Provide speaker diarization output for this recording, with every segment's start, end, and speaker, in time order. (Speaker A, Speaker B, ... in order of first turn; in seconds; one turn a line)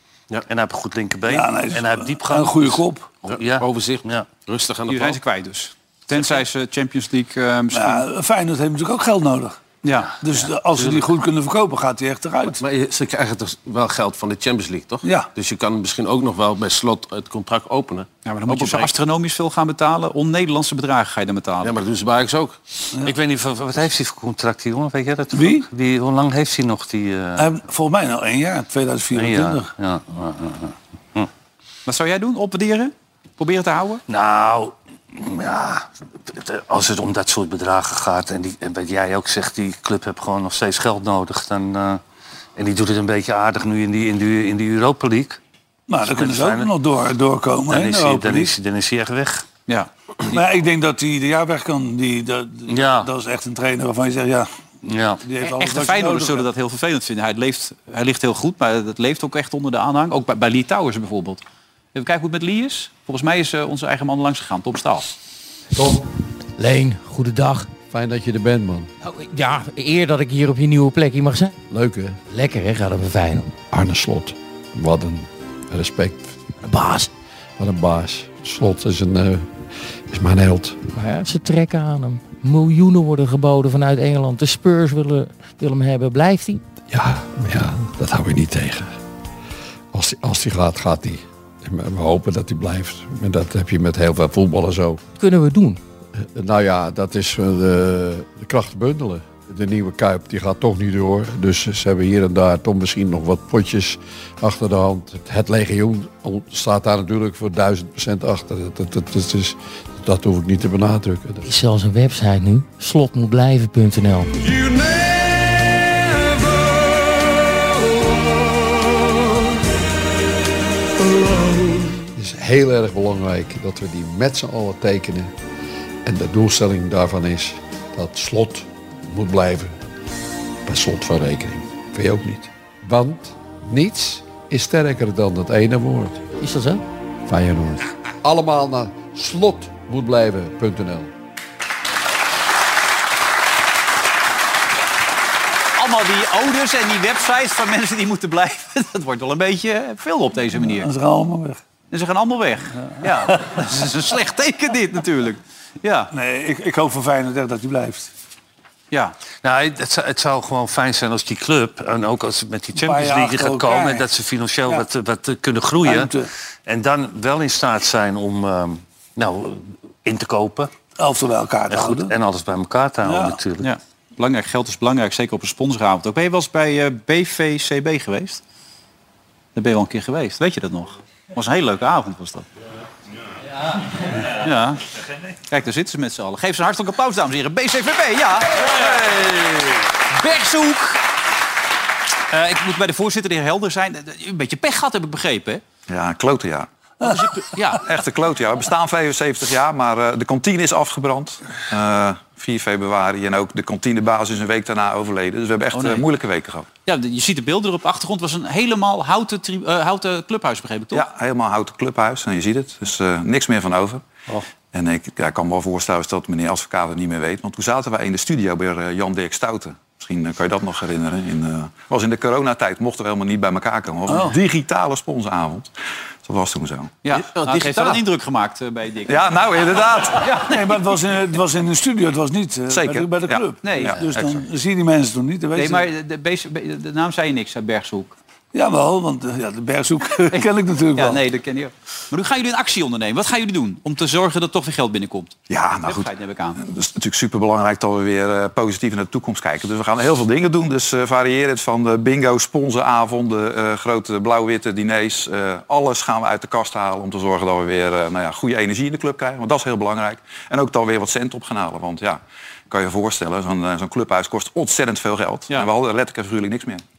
Speaker A: 0.4-4.3
Speaker B: 1.2-3.1
Speaker C: 3.2-5.2
Speaker D: 4.9-8.1
Speaker B: 7.7-9.6
Speaker D: 9.8-10.1
Speaker A: 10.1-11.1
Speaker B: 10.2-12.6
Speaker C: 12.6-18.9
Speaker D: 18.2-21.7
Speaker C: 21.6-22.6
Speaker A: 23.0-27.5
Speaker B: 25.3-25.7
Speaker B: 27.4-29.7
Speaker A: 29.1-31.3
Speaker D: 31.9-34.0
Speaker A: 34.1-42.0
Speaker A: 42.5-45.4
Speaker B: 45.9-48.5
Speaker A: 46.0-46.7
Speaker A: 47.7-49.5
Speaker D: 49.7-50.4
Speaker B: 50.3-54.5
Speaker A: 52.7-53.1
Speaker A: 54.8-55.2
Speaker B: 55.2-56.5
Speaker D: 55.4-61.4
Speaker D: 61.9-65.1
Speaker E: 66.6-67.7
Speaker F: 67.8-68.9
Speaker E: 69.0-71.5
Speaker F: 71.7-72.2
Speaker E: 72.3-73.5
Speaker F: 73.7-76.4
Speaker E: 76.6-77.1
Speaker F: 77.6-80.8
Speaker E: 80.9-86.6
Speaker F: 86.9-89.0
Speaker F: 89.9-95.0
Speaker E: 95.2-95.8
Speaker F: 96.2-111.4
Speaker E: 111.4-114.3
Speaker F: 122.0-125.3
Speaker F: 126.0-129.8
Speaker F: 130.6-136.2
Speaker E: 136.4-136.8
Speaker F: 137.3-141.1
Speaker D: 145.8-150.9
Speaker B: 150.5-151.6
Speaker D: 151.9-156.1
Speaker B: 152.8-153.6
Speaker B: 156.1-158.1
Speaker A: 159.4-166.1
Speaker B: 162.7-164.1
Speaker B: 165.8-166.3
Speaker A: 166.7-170.7
Speaker B: 171.0-172.1
Speaker A: 171.7-173.7
Speaker B: 173.0-173.4
Speaker D: 173.6-178.4
Speaker D: 179.5-182.5
Speaker D: 184.2-184.8
Speaker D: 185.5-189.0
Speaker D: 190.1-191.0
Speaker D: 192.3-195.6
Speaker G: 195.9-196.7
Speaker B: 197.0-197.3
Speaker D: 197.0-197.8
Speaker G: 197.7-206.7
Speaker D: 205.7-206.0
Speaker D: 206.8-211.0
Speaker G: 210.9-214.0
Speaker G: 214.7-225.7
Speaker B: 224.1-224.4
Speaker G: 226.2-226.9
Speaker D: 227.0-230.8
Speaker C: 227.1-228.0
Speaker G: 229.1-230.4
Speaker B: 230.4-235.9
Speaker G: 232.7-234.4
Speaker D: 233.6-234.0
Speaker D: 235.6-238.1
Speaker B: 238.5-241.2
Speaker D: 240.3-246.6
Speaker G: 245.5-266.8